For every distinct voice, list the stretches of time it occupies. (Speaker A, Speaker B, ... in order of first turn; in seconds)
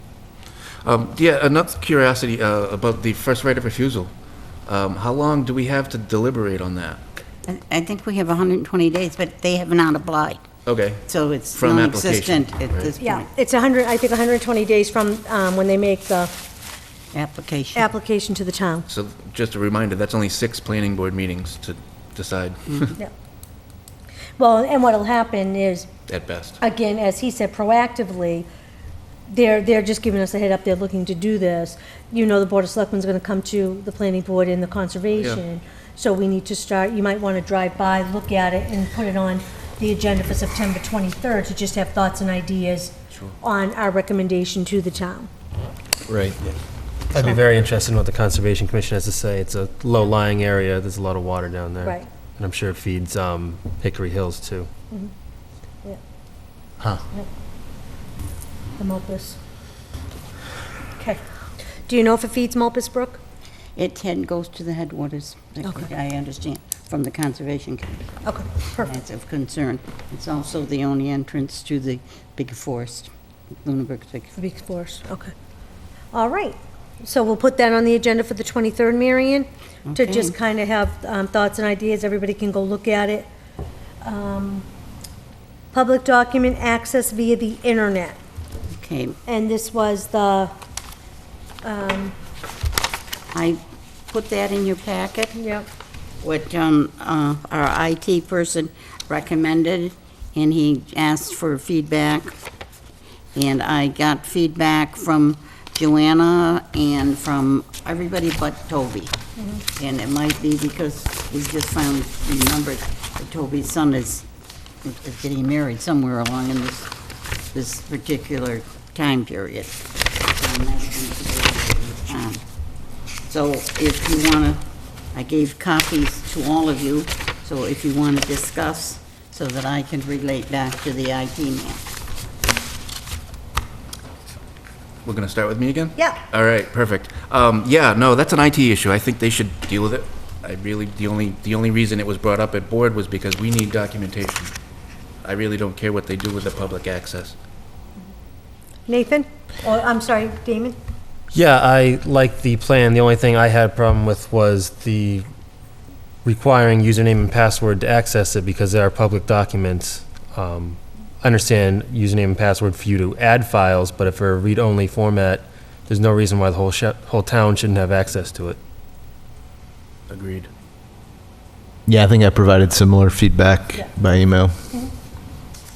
Speaker A: 0.8-4.1, 4.7-7.0, 10.7-12.9, 18.9-22.9, 26.1-26.6, 35.2-35.4, 135.0-144.5, 145.2-147.3, 170.1-170.5
Speaker B: 7.5-10.4, 11.1-13.3, 17.1-17.9, 63.8-68.0, 68.8-73.1, 73.6-74.3, 79.9-80.3, 88.7-89.2, 93.3-93.6, 94.1-95.4, 96.2-102.3, 103.3-109.1, 109.8-114.2, 114.8-116.9, 117.5-122.4, 123.3-131.8
Speaker C: 13.0-16.3, 17.8-18.8, 24.4-25.9, 26.6-28.4, 29.3-45.3, 58.8-59.4, 61.9-63.2, 68.2-68.9, 74.4-75.3, 76.1-83.3, 84.0-84.7, 85.7-88.2, 89.2-90.5, 91.6-92.1, 95.3-95.7, 109.4-109.6, 148.9-150.8
Speaker D: 47.1-54.7, 151.3-155.2, 156.2-168.6
Speaker E: 171.9-174.6